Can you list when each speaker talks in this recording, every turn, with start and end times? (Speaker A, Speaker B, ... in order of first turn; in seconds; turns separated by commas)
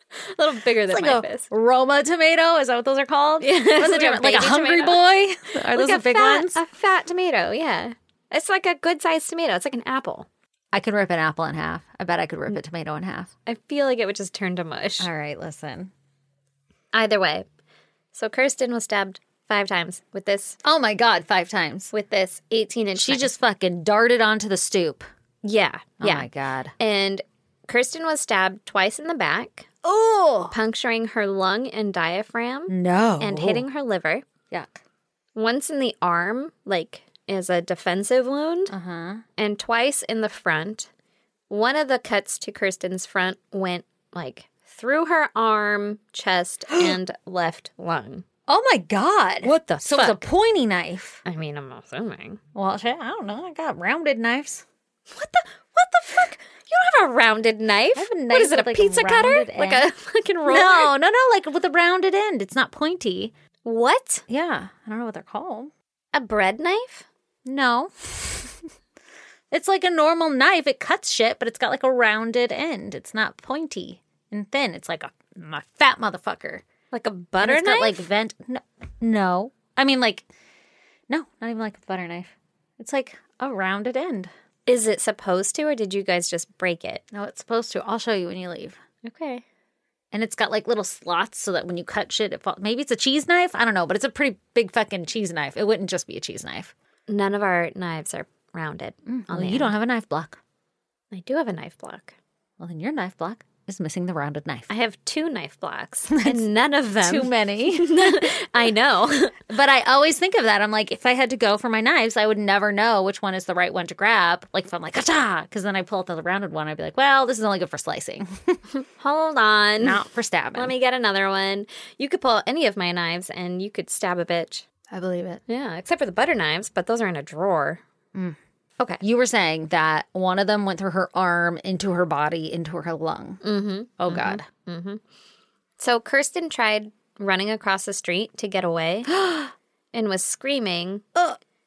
Speaker A: 0.1-1.4, Speaker B: 0.9-6.6, Speaker A: 3.4-5.0, Speaker A: 5.6-10.3, Speaker B: 10.7-13.3, Speaker A: 13.4-15.1, Speaker B: 15.0-15.9, Speaker A: 16.9-17.4, Speaker A: 18.1-20.6, Speaker B: 20.6-21.9, Speaker A: 21.9-23.3, Speaker B: 22.9-25.1, Speaker A: 25.4-26.3, Speaker B: 26.0-26.7, Speaker A: 26.8-29.7, Speaker B: 29.8-30.5, Speaker A: 30.5-34.2, Speaker B: 32.7-33.6, Speaker B: 34.5-34.8, Speaker A: 35.3-38.7, Speaker B: 38.7-39.2, Speaker A: 39.4-40.9, Speaker A: 41.5-48.2, Speaker B: 46.7-46.9, Speaker B: 48.5-51.2, Speaker A: 49.4-50.2, Speaker A: 51.2-52.4, Speaker B: 52.5-54.6, Speaker A: 55.1-60.9, Speaker B: 57.9-59.9, Speaker B: 60.5-63.3, Speaker A: 63.6-64.2, Speaker B: 64.3-65.7, Speaker A: 66.1-67.0, Speaker B: 67.4-68.5, Speaker B: 69.5-76.6, Speaker A: 76.9-78.0, Speaker B: 77.4-80.3, Speaker B: 81.1-84.3, Speaker A: 84.7-87.0, Speaker B: 87.1-88.8, Speaker A: 89.0-89.4, Speaker B: 90.1-96.7, Speaker A: 97.1-99.7, Speaker B: 99.1-100.4, Speaker A: 101.1-102.1, Speaker B: 102.6-104.7, Speaker A: 104.7-109.3, Speaker B: 106.1-106.4, Speaker B: 107.0-108.3, Speaker B: 109.5-118.6, Speaker A: 119.0-120.0, Speaker B: 119.8-120.7, Speaker A: 120.5-124.6, Speaker B: 124.9-125.4, Speaker A: 125.5-127.8, Speaker B: 129.0-133.4, Speaker A: 133.4-135.0, Speaker B: 134.0-134.4, Speaker A: 135.8-139.1, Speaker B: 139.1-139.5, Speaker A: 139.9-141.1